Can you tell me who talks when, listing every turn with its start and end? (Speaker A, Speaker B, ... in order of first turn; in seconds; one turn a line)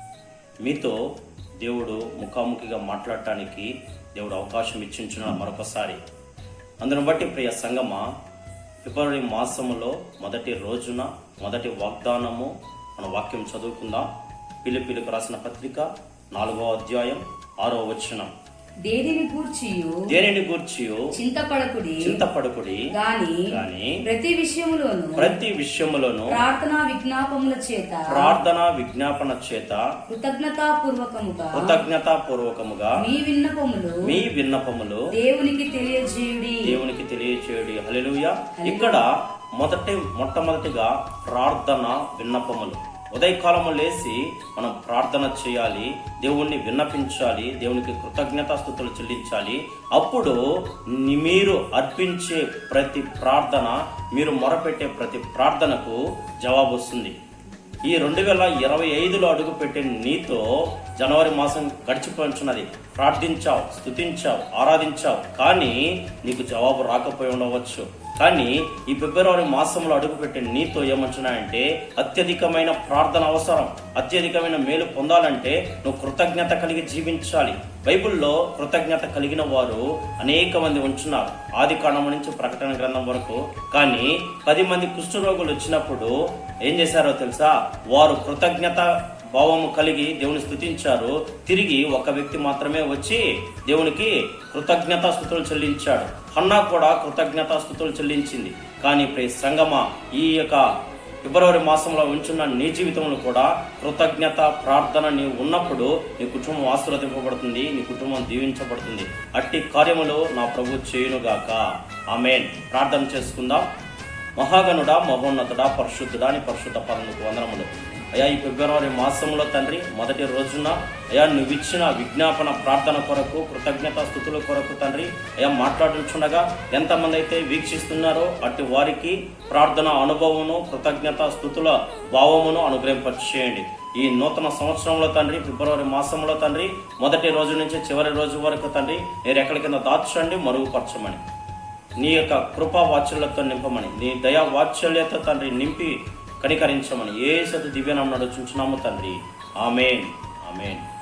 Speaker A: 0.6-1.0
Speaker A: 1.6-6.0
Speaker A: 6.8-8.1
Speaker A: 8.8-14.1
Speaker A: 14.6-18.3
Speaker B: 18.8-20.2
Speaker A: 20.1-21.2
Speaker B: 21.1-22.2
Speaker A: 22.0-22.9
Speaker B: 22.9-25.4
Speaker A: 23.5-24.1
Speaker A: 25.2-26.4
Speaker B: 26.3-28.4
Speaker A: 28.1-29.9
Speaker B: 30.1-31.8
Speaker A: 31.5-33.0
Speaker B: 33.0-34.2
Speaker A: 34.0-35.1
Speaker B: 35.1-36.8
Speaker A: 36.6-57.1
Speaker B: 38.6-39.0
Speaker A: 57.9-113.7
Speaker A: 114.4-141.2
Speaker A: 142.0-150.8